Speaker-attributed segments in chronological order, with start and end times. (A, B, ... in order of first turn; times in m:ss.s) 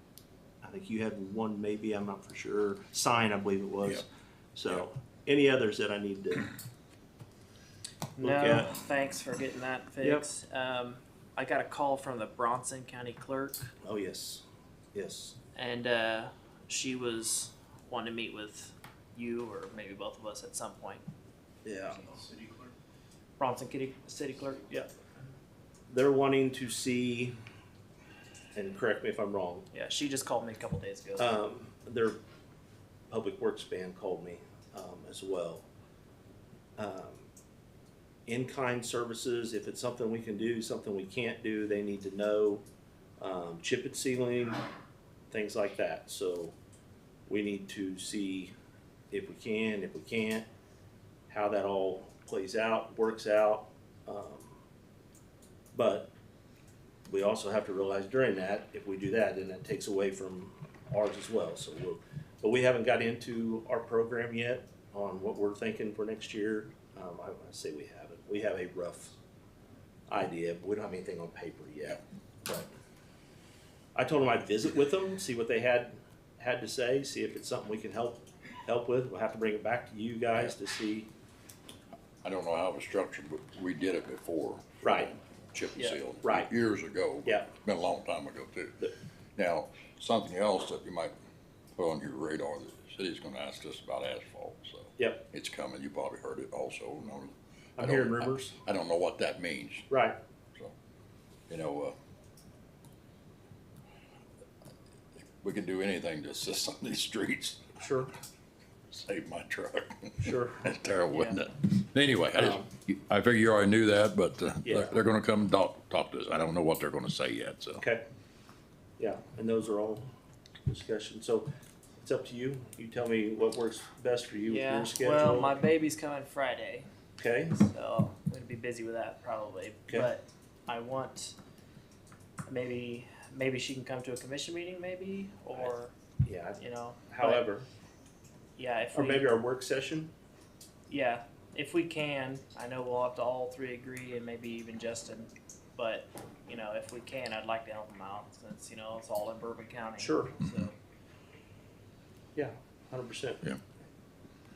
0:00.6-0:06.5 A
0:08.2-0:13.7 B
0:08.2-0:08.7 A
0:13.8-0:14.4 A
0:14.9-0:15.4 A
0:15.6-0:21.0 B
0:21.6-0:22.0 A
0:23.4-0:24.9 B
0:25.9-0:27.3 A
0:28.6-0:29.7 A
0:29.7-0:31.4 B
0:31.2-0:32.2 A
0:33.1-0:35.7 A
0:36.8-0:37.2 A
0:38.3-0:42.6 A
0:43.2-0:44.6 A
0:45.3-0:46.6 A
0:47.3-0:48.5 A
0:49.1-0:50.5 A
0:51.3-0:54.6 A
0:55.7-0:56.1 A
0:57.0-1:09.2 A
1:10.1-1:12.7 A
1:13.9-1:21.1 A
1:22.2-1:28.8 C
1:24.8-1:25.1 A
1:26.2-1:26.5 A
1:29.4-1:31.1 C
1:31.8-1:39.9 C
1:35.0-1:35.2 A
1:37.8-1:38.6 A
1:39.9-1:40.2 A
1:41.5-1:41.9 C
1:45.4-1:47.6 C
1:47.8-1:48.1 A
1:48.9-1:57.8 C
1:50.2-1:50.7 A
1:51.1-1:51.4 B
1:52.3-1:52.7 A
1:54.6-1:55.0 A
1:57.8-1:58.0 A
1:59.0-2:00.1 A
2:00.7-2:01.5 A
2:02.0-2:05.5 A
2:04.4-2:06.9 B
2:07.2-2:07.5 A
2:07.5-2:11.4 B
2:12.5-2:15.9 B
2:15.5-2:17.7 A
2:16.6-2:17.4 B
2:18.6-2:19.3 B
2:18.9-2:20.1 A
2:20.9-2:30.8 B
2:30.0-2:30.4 A
2:32.4-2:33.4 A